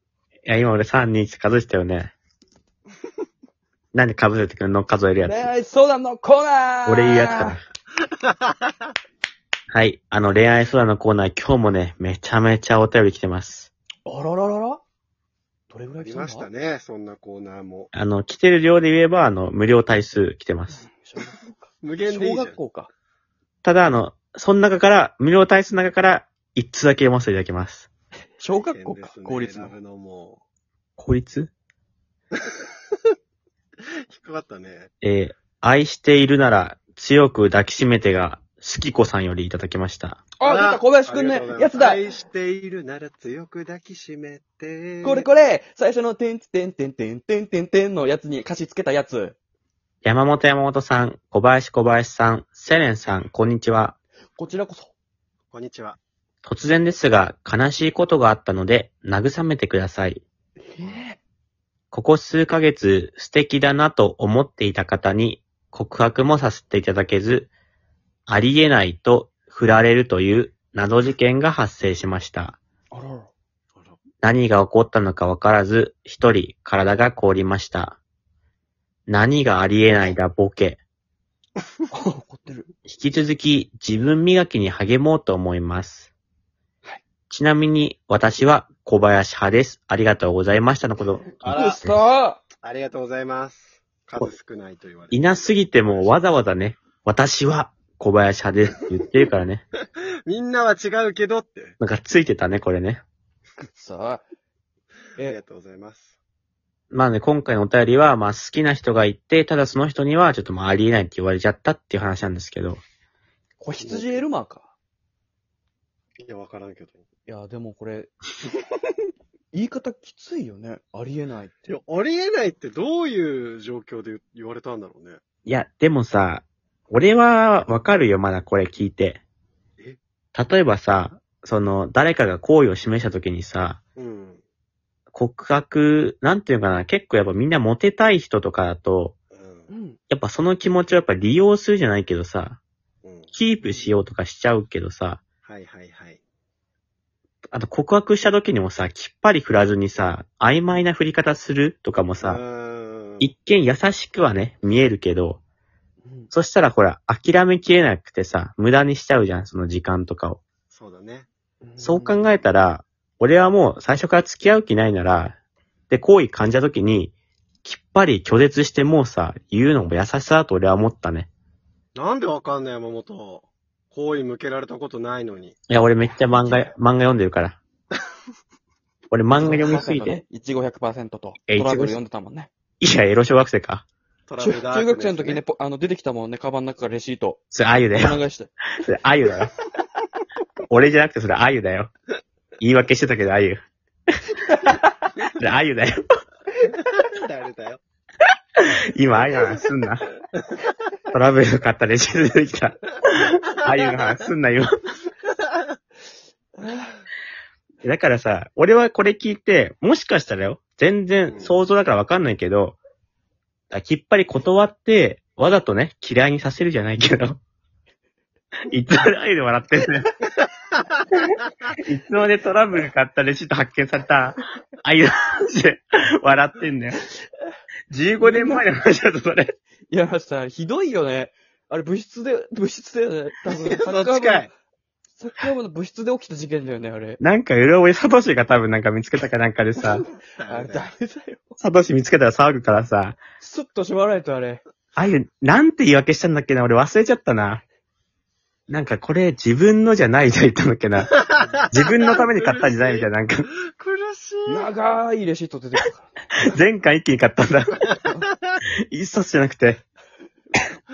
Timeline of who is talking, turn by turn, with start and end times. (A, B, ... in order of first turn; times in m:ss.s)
0:00.4-0:02.1 A
0:03.9-0:05.5 A
0:05.2-0:07.6 B
0:06.8-0:07.6 A
0:08.2-0:08.7 C
0:09.7-0:13.7 A
0:14.0-0:14.8 B
0:15.7-0:16.5 B
0:16.0-0:17.9 C
0:17.9-0:20.8 A
0:20.7-0:22.9 B
0:21.8-0:22.6 C
0:23.6-0:27.9 A
0:28.4-0:29.7 B
0:28.5-0:30.4 C
0:31.0-0:31.5 A
0:34.1-0:34.9 C
0:35.0-0:40.2 A
0:40.4-0:42.0 B
0:40.4-0:45.3 C
0:45.0-0:49.4 B
0:50.0-0:54.0 A
0:54.4-0:54.9 B
0:55.5-0:56.0 C
0:56.4-1:00.2 A
1:00.7-1:01.2 B
1:01.9-1:07.5 A
1:08.3-1:12.6 A
1:12.9-1:13.3 B
1:13.7-1:14.0 C
1:14.2-1:18.0 A
1:19.1-1:20.8 A
1:21.9-1:22.7 B
1:22.8-1:26.1 A
1:27.3-1:31.9 A
1:31.4-1:31.8 C
1:31.5-1:32.4 B
1:32.6-1:36.1 C
1:35.1-1:39.6 A
1:40.3-1:41.8 C
1:41.8-1:43.0 A
1:43.6-1:44.2 B
1:45.2-1:46.2 C
1:46.9-1:52.8 A
1:53.6-1:54.7 B
1:53.8-1:54.2 C
1:56.2-1:57.0 C
1:57.3-1:58.1 B
1:59.5-2:01.7 B
2:01.7-2:05.2 C
2:05.4-2:09.2 A
2:10.3-2:13.8 A
2:14.0-2:14.4 C
2:15.1-2:19.2 A
2:19.3-2:19.7 C
2:19.7-2:20.0 B
2:20.1-2:22.6 A
2:23.0-2:23.8 C
2:23.3-2:25.2 A
2:25.4-2:26.2 C
2:27.5-2:32.4 A
2:32.2-2:33.3 C
2:33.2-2:35.4 A
2:36.0-2:36.3 B
2:36.3-2:40.4 A
2:40.7-2:41.3 C
2:41.6-2:42.2 B
2:41.8-2:45.4 A
2:45.9-2:47.1 A
2:47.6-2:51.3 A
2:52.0-2:55.6 C
2:55.7-2:57.6 A
2:59.1-3:00.2 A
2:59.3-3:02.5 B
3:01.5-3:02.0 A
3:02.8-3:03.8 A
3:04.3-3:05.4 C
3:04.4-3:07.4 B
3:07.5-3:08.2 A
3:08.0-3:08.5 B
3:08.8-3:09.5 A
3:10.7-3:11.9 A
3:12.6-3:13.6 A
3:15.4-3:16.0 A
3:16.8-3:17.8 C
3:18.6-3:20.1 A
3:21.1-3:24.7 A
3:26.6-3:27.0 B
3:27.8-3:32.8 A
3:31.3-3:31.5 C
3:33.7-3:37.4 A
3:38.7-3:40.1 A
3:41.7-3:47.0 A
3:47.9-3:49.5 A
3:48.2-3:48.6 B
3:49.9-3:54.5 B
3:53.6-3:54.5 C
3:55.1-3:57.2 B
3:57.2-4:00.0 A
4:00.4-4:00.9 C
4:00.5-4:01.6 B
4:01.6-4:03.2 A
4:03.4-4:04.6 B
4:05.0-4:07.6 A
4:08.7-4:11.1 A
4:11.1-4:14.7 C
4:11.7-4:13.5 A
4:14.5-4:16.1 B
4:16.4-4:18.0 A
4:18.9-4:19.8 A